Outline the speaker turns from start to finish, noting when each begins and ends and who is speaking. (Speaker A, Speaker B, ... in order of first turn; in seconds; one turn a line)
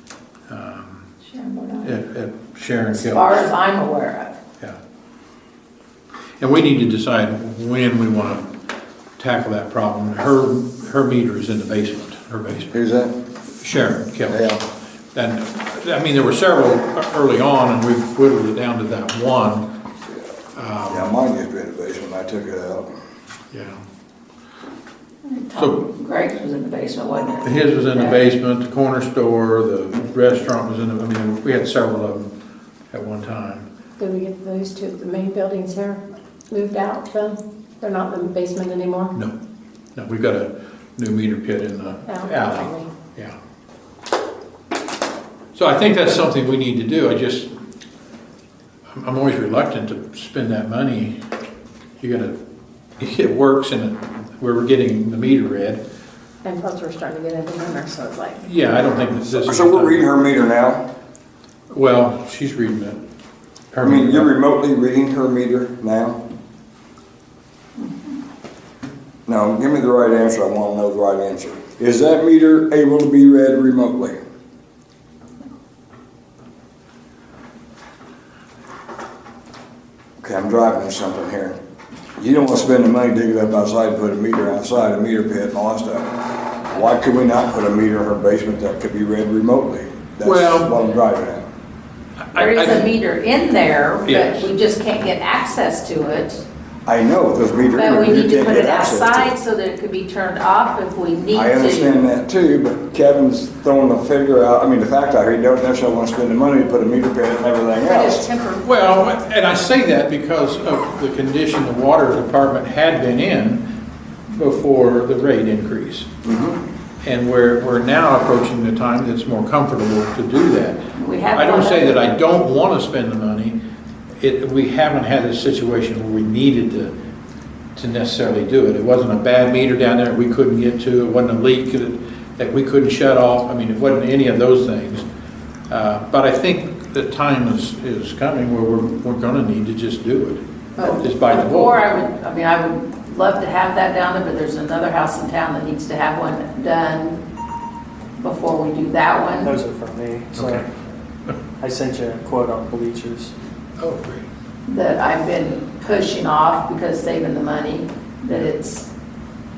Speaker A: 0.5-1.1
Speaker B: 1.2-2.0
Speaker A: 1.8-3.4
Speaker B: 2.9-4.4
Speaker A: 6.4-8.5
Speaker A: 9.2-12.7
Speaker C: 12.7-13.1
Speaker A: 13.6-19.6
Speaker C: 14.3-14.6
Speaker A: 20.5-21.1
Speaker C: 20.9-22.9
Speaker A: 23.5-23.8
Speaker B: 25.2-28.2
Speaker A: 25.5-25.8
Speaker A: 27.4-32.3
Speaker A: 32.9-33.6
Speaker D: 34.0-39.1
Speaker A: 39.9-43.3
Speaker D: 42.1-42.9
Speaker A: 45.5-47.5
Speaker A: 48.9-51.1
Speaker A: 52.0-52.4
Speaker A: 53.0-55.8
Speaker D: 56.4-58.4
Speaker A: 58.4-60.0
Speaker C: 59.2-60.8
Speaker A: 61.7-63.0
Speaker A: 63.7-64.3
Speaker C: 63.8-66.2
Speaker C: 69.3-74.2
Speaker C: 80.2-81.6
Speaker C: 82.2-86.1
Speaker C: 86.7-91.4
Speaker A: 90.2-90.7
Speaker A: 92.3-92.8
Speaker B: 92.3-96.4
Speaker A: 94.1-94.5
Speaker C: 96.8-99.3
Speaker B: 97.7-102.0
Speaker C: 101.3-108.3
Speaker D: 107.9-108.7
Speaker A: 108.6-113.7
Speaker A: 114.3-116.1
Speaker C: 116.2-116.6
Speaker A: 117.0-120.8
Speaker B: 121.0-122.0
Speaker A: 121.3-123.6
Speaker A: 124.2-126.9
Speaker A: 127.8-135.1
Speaker A: 135.7-141.8
Speaker B: 140.8-147.2
Speaker B: 148.2-149.5
Speaker E: 149.4-150.7
Speaker A: 150.3-150.7
Speaker E: 151.6-153.3
Speaker A: 153.8-154.3
Speaker B: 154.7-158.9